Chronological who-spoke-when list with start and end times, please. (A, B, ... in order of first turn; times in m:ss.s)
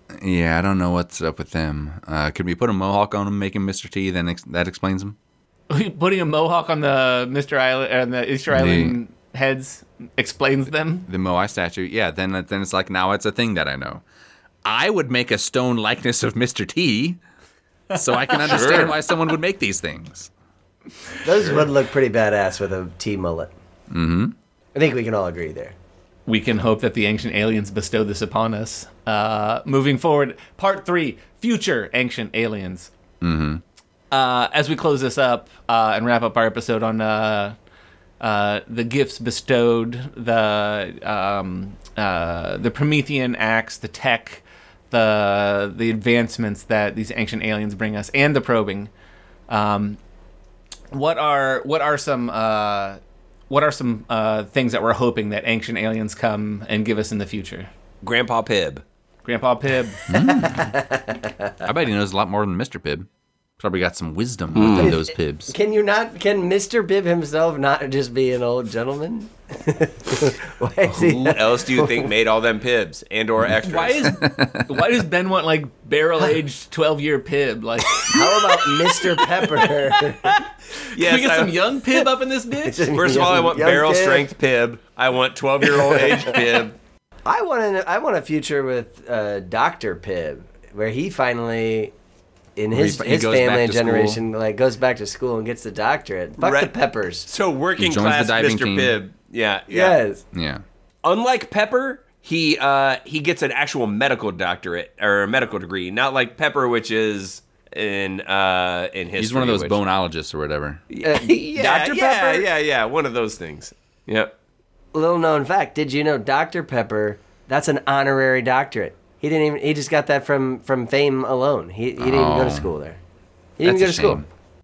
0:00.2-0:05.2 A
0:05.7-0:11.1 B
0:08.5-0:09.0 A
0:11.1-0:14.0 A
0:14.6-0:17.2 A
0:17.9-0:20.3 A
0:18.2-0:19.0 B
0:18.5-0:18.9 C
0:21.2-0:23.5 D
0:23.9-0:24.4 A
0:24.8-0:25.8 D
0:26.3-0:32.9 B
0:33.2-0:33.6 A
0:34.1-0:37.6 B
0:38.2-0:48.9 B
0:49.5-0:50.0 B
0:50.9-0:53.0 B
0:53.5-0:57.7 B
0:58.0-0:58.8 C
0:59.2-1:00.2 B
1:00.1-1:00.8 A
1:00.5-1:01.4 D
1:01.6-1:03.1 A
1:03.6-1:05.5 A
1:04.6-1:05.0 C
1:04.8-1:12.0 D
1:10.8-1:14.2 C
1:13.6-1:22.9 B
1:14.0-1:14.8 A
1:18.0-1:20.4 D
1:20.9-1:22.0 C
1:22.6-1:24.3 D
1:22.9-1:26.8 C
1:27.3-1:31.9 D
1:32.6-1:37.3 D
1:32.7-1:34.2 A
1:36.4-1:36.7 C
1:37.2-1:40.0 C
1:37.8-1:39.0 A
1:39.7-1:40.2 D
1:40.3-1:40.6 A
1:41.0-1:49.8 C
1:49.2-1:50.8 A
1:50.9-1:54.3 C
1:51.0-1:52.5 D
1:54.9-2:03.0 D
2:02.0-2:02.7 A
2:03.6-2:04.2 D
2:03.6-2:04.3 A